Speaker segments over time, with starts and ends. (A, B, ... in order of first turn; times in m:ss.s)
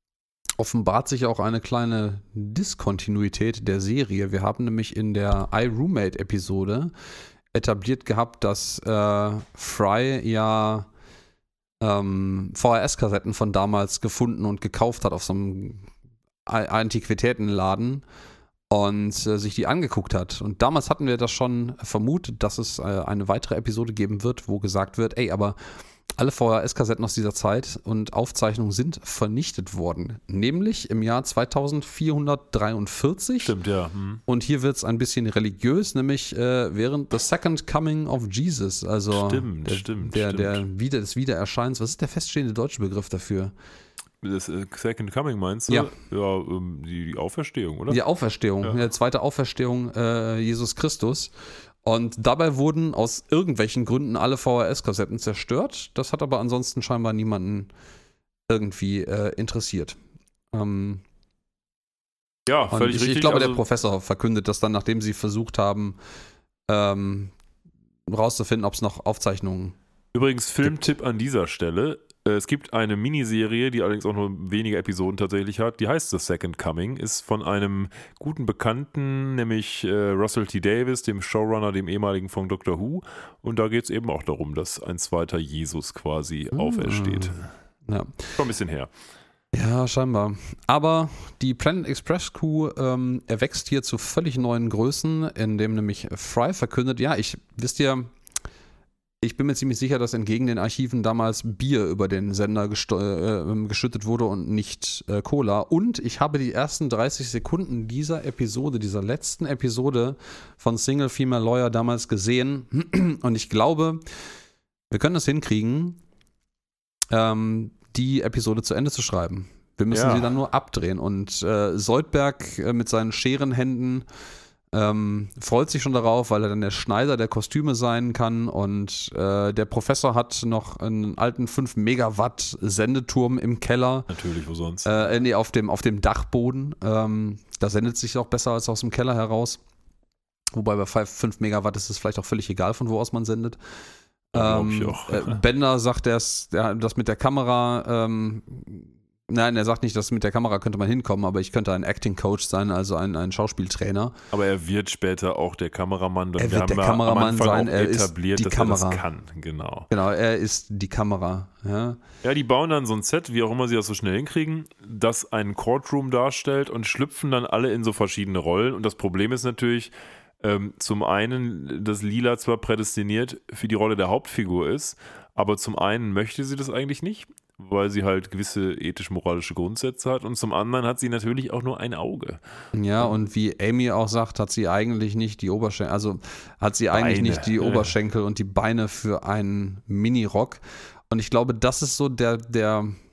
0:00.6-0:06.9 A
0:07.5-0:10.9 A
0:11.8-0:15.9 A
0:16.4-0:18.0 A
0:18.7-0:25.6 A
0:26.2-0:33.5 A
0:33.4-0:34.2 B
0:34.3-0:43.5 A
0:39.1-0:40.6 B
0:44.2-0:48.0 B
0:47.9-0:51.3 A
0:51.8-0:57.7 A
0:58.5-1:00.0 A
1:00.5-1:01.0 A
1:02.5-1:03.6 B
1:02.7-1:06.0 A
1:06.7-1:07.3 A
1:08.1-1:09.8 A
1:10.1-1:27.4 B
1:26.5-1:28.3 A
1:28.4-1:28.9 B
1:29.5-1:38.1 A
1:39.2-1:54.0 A
1:54.9-1:56.0 A
1:57.1-2:04.0 A
1:59.9-2:00.3 B
2:04.7-2:14.1 A
2:14.1-2:14.9 B
2:14.8-2:19.6 A
2:20.5-2:23.6 A
2:24.3-2:25.4 B
2:24.3-2:34.1 A
2:34.3-2:39.9 B
2:36.4-2:39.0 A
2:39.9-2:42.0 A
2:42.2-3:02.4 B
3:02.7-3:13.0 A
3:06.9-3:07.9 B